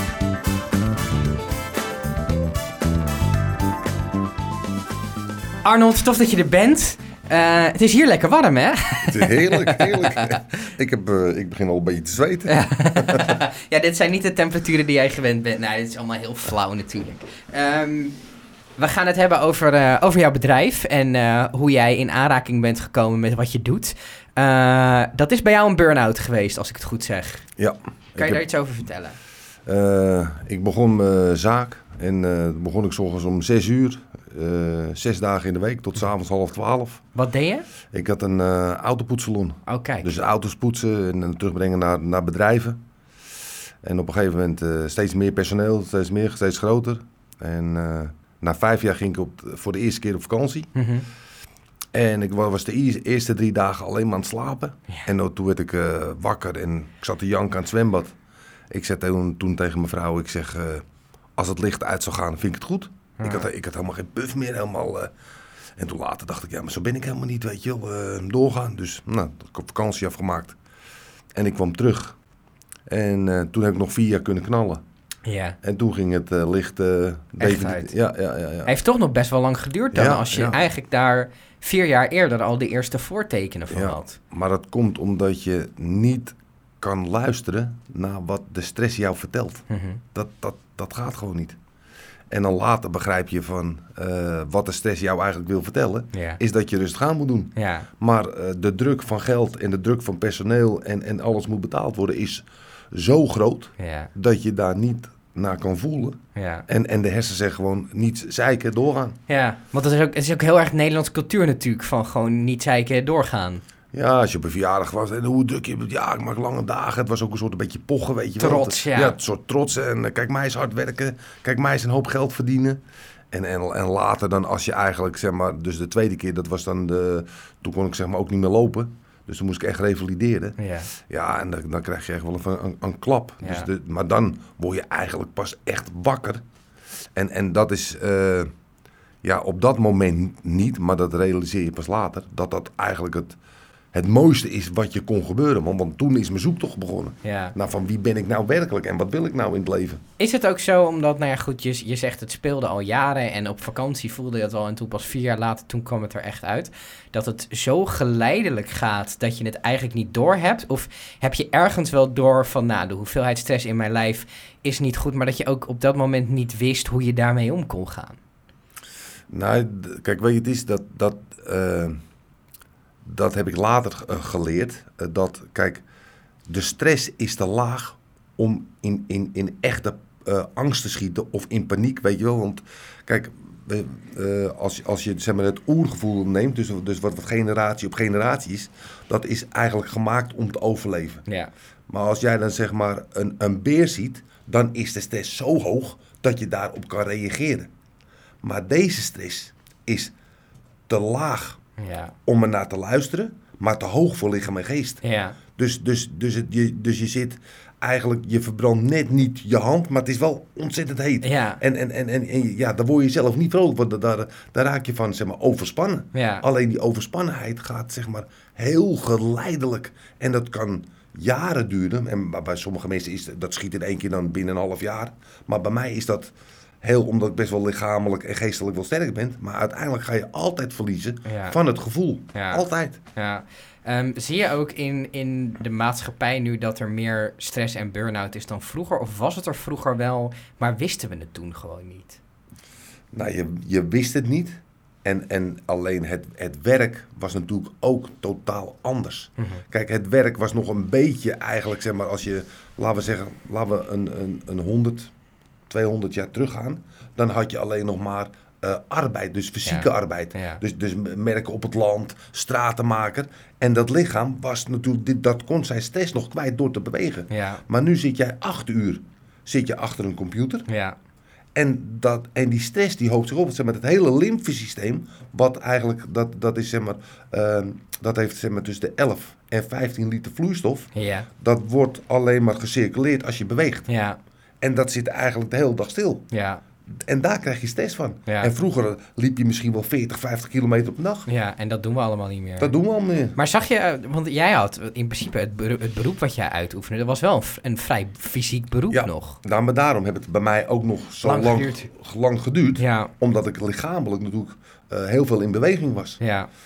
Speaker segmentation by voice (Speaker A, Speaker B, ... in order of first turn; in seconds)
Speaker A: 5.6-10.4, 12.5-18.2, 18.8-27.5, 28.2-29.2, 37.1-37.6, 39.6-40.0, 50.7-51.1, 63.2-63.5, 75.2-75.6, 77.4-77.9, 78.7-84.1, 89.7-90.0, 96.1-96.4, 97.5-97.9, 103.8-104.1, 106.3-106.7, 109.3-113.6, 118.4-119.2, 130.6-130.9, 133.4-133.7, 147.2-147.5, 150.2-168.2, 201.8-202.1, 205.0-205.4, 211.2-211.6, 216.1-216.4, 231.2-231.6, 232.3-242.2, 259.6-260.6, 267.3-267.6, 270.7-270.9, 280.9-281.3, 283.9-284.2, 286.3-286.6, 288.3-288.5, 291.3-292.7, 293.4-299.4, 301.2-301.9, 302.8-303.1, 306.2-306.5
Speaker B: 9.1-13.4, 27.6-28.5, 29.6-37.0, 37.9-42.8, 43.8-50.7, 51.9-58.1, 58.7-60.8, 61.4-65.1, 65.8-70.6, 71.3-72.2, 72.9-74.8, 75.6-78.7, 79.9-80.6, 83.7-91.6, 92.3-109.2, 113.9-122.8, 123.3-136.4, 137.1-138.5, 139.2-143.4, 143.9-150.0, 169.3-171.9, 173.0-175.8, 176.5-191.2, 191.9-197.7, 198.4-200.1, 200.9-201.6, 202.2-205.0, 205.6-233.0, 243.1-255.1, 255.7-270.7, 271.5-283.9, 284.6-286.3, 286.9-291.3, 292.6-293.4, 298.9-306.2